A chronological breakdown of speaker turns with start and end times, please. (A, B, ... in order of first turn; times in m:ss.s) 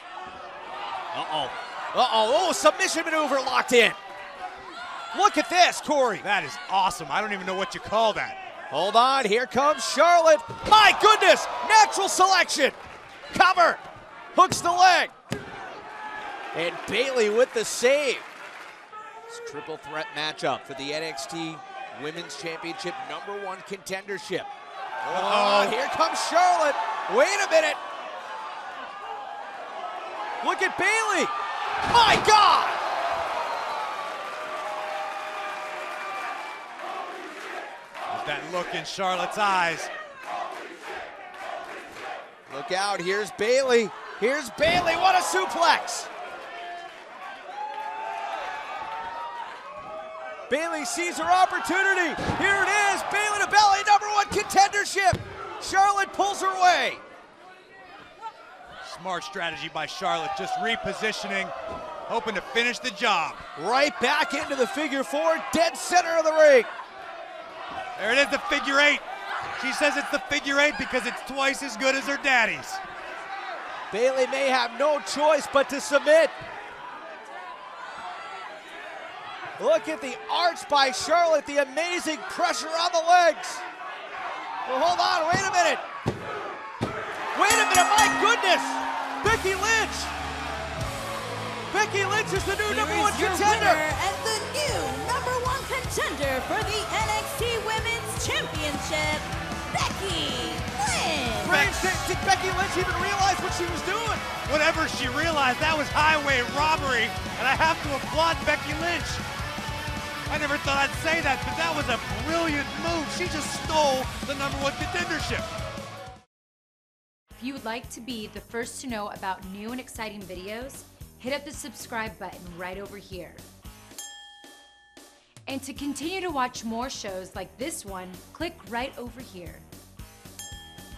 0:01.1-0:04.0 A
0:05.1-0:06.3 A
0:06.2-0:08.4 B
0:08.7-0:12.8 A
0:13.3-0:13.8 A
0:14.4-0:15.1 A
0:16.5-0:18.3 A
0:19.3-0:24.5 A
0:25.0-0:27.8 A
0:25.1-0:25.8 B
0:30.4-0:32.8 A
0:38.1-0:39.9 B
0:42.5-0:46.1 A
0:50.5-0:57.0 A
0:58.8-1:01.5 B
1:02.1-1:03.4 B
1:03.6-1:06.7 A
1:08.0-1:09.0 B
1:09.6-1:12.8 B
1:13.9-1:16.3 A
1:19.6-1:23.6 A
1:24.7-1:25.8 A
1:27.4-1:30.1 A
1:31.7-1:33.8 A
1:32.6-1:41.7 C
1:41.4-1:44.3 A
1:41.6-1:42.0 B
1:44.4-1:49.2 B
1:50.3-1:55.5 B
1:57.4-2:03.4 D
2:05.5-2:09.7 D